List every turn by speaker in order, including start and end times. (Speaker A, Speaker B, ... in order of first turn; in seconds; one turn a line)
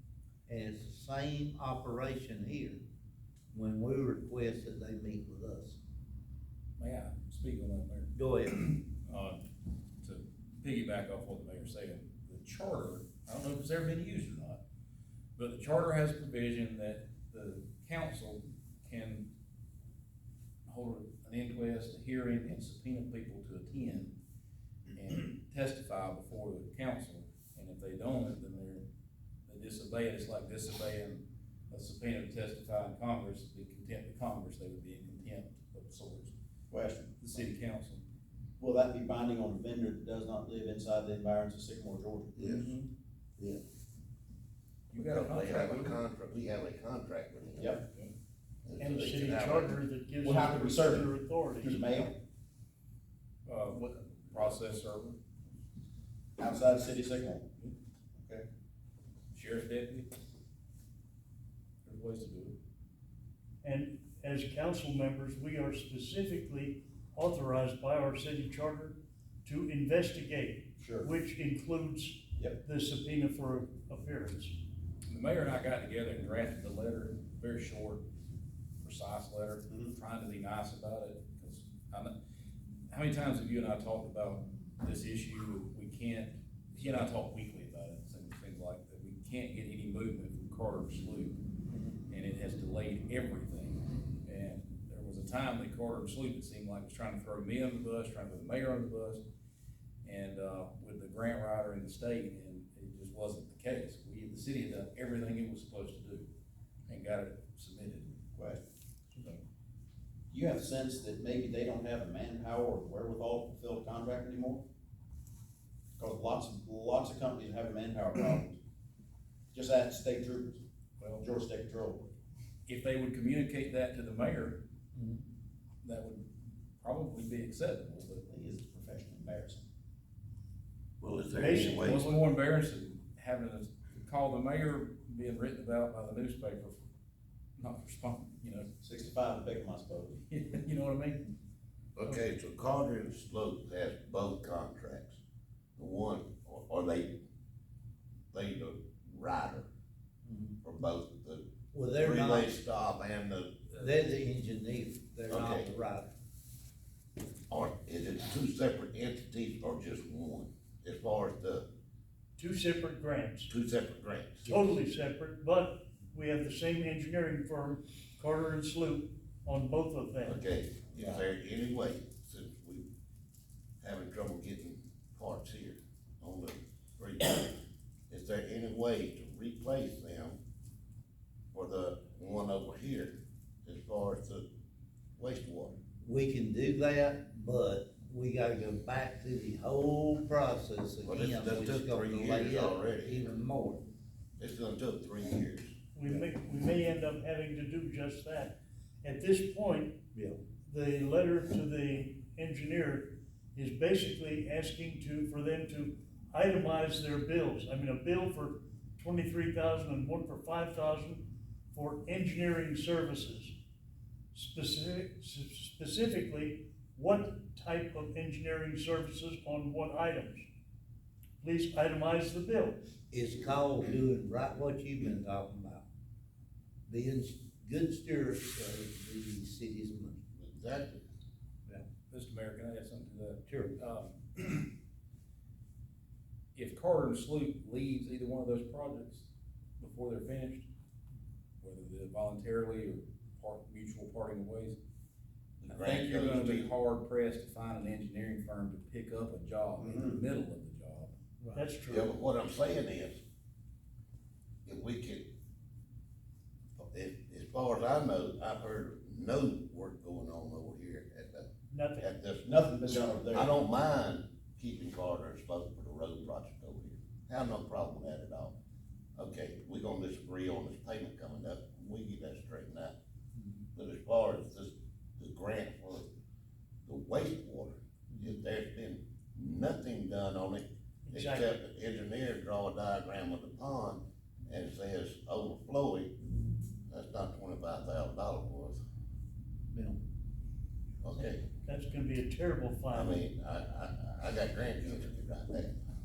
Speaker A: 0.5-2.8
Speaker A: 3.5-5.8
Speaker B: 6.8-9.4
Speaker A: 8.1-8.6
Speaker B: 10.0-14.6
Speaker B: 15.3-19.2
Speaker B: 20.6-24.1
Speaker B: 24.9-28.8
Speaker B: 29.5-36.3
Speaker C: 36.7-37.3
Speaker B: 37.2-38.0
Speaker C: 38.6-42.4
Speaker D: 42.4-42.7
Speaker B: 42.4-42.8
Speaker B: 44.9-46.0
Speaker D: 45.0-47.8
Speaker C: 47.6-47.9
Speaker D: 48.6-49.8
Speaker E: 48.8-51.9
Speaker C: 50.2-52.1
Speaker B: 53.5-55.2
Speaker C: 56.4-57.5
Speaker C: 58.2-58.5
Speaker B: 59.3-60.1
Speaker B: 61.8-62.5
Speaker E: 63.6-74.6
Speaker C: 70.8-71.1
Speaker C: 72.3-72.6
Speaker B: 75.0-78.0
Speaker B: 78.8-82.1
Speaker C: 79.7-80.0
Speaker B: 82.9-91.4
Speaker B: 92.1-99.2
Speaker B: 100.0-106.3
Speaker B: 106.9-108.2
Speaker C: 108.3-108.6
Speaker B: 109.1-109.4
Speaker C: 110.3-114.6
Speaker C: 116.0-118.6
Speaker C: 119.5-120.6
Speaker B: 121.0-121.2
Speaker C: 121.2-122.1
Speaker B: 122.7-124.6
Speaker B: 125.8-128.2
Speaker C: 128.3-129.6
Speaker D: 131.0-132.2
Speaker E: 131.4-132.1
Speaker B: 131.6-136.8
Speaker B: 137.6-138.7
Speaker C: 138.8-140.2
Speaker B: 140.3-141.2
Speaker D: 141.9-145.2
Speaker D: 145.8-147.2
Speaker D: 148.3-149.7
Speaker D: 150.6-151.5
Speaker A: 151.7-152.5
Speaker D: 152.0-153.7
Speaker A: 153.7-156.1
Speaker D: 155.3-155.7
Speaker D: 157.5-161.7
Speaker E: 162.4-163.5
Speaker D: 163.5-164.7
Speaker E: 164.4-170.4
Speaker D: 170.2-172.8
Speaker D: 173.8-177.5
Speaker D: 178.1-180.4
Speaker D: 181.5-184.4
Speaker D: 185.2-185.8
Speaker A: 186.0-193.8
Speaker D: 191.0-193.3
Speaker D: 194.4-195.7
Speaker E: 195.9-200.0
Speaker A: 200.1-200.4
Speaker E: 200.6-213.6
Speaker E: 214.3-220.5
Speaker E: 221.4-222.8
Speaker A: 223.1-225.8
Speaker A: 226.9-230.2
Speaker D: 230.4-231.1
Speaker B: 232.1-234.7
Speaker A: 233.5-233.7
Speaker B: 236.5-239.3
Speaker B: 239.8-240.7
Speaker B: 241.6-244.8
Speaker D: 245.6-246.7
Speaker B: 245.7-251.1
Speaker C: 249.8-250.2
Speaker E: 251.5-252.1
Speaker D: 251.9-253.2
Speaker D: 254.6-255.2
Speaker D: 256.9-261.5
Speaker E: 261.7-262.1
Speaker D: 262.0-268.5
Speaker C: 262.4-263.6
Speaker D: 269.1-272.9
Speaker D: 273.7-276.1
Speaker D: 276.9-286.1
Speaker E: 281.1-281.5
Speaker D: 286.9-288.8
Speaker D: 291.0-291.4
Speaker E: 291.6-293.2
Speaker D: 292.9-295.7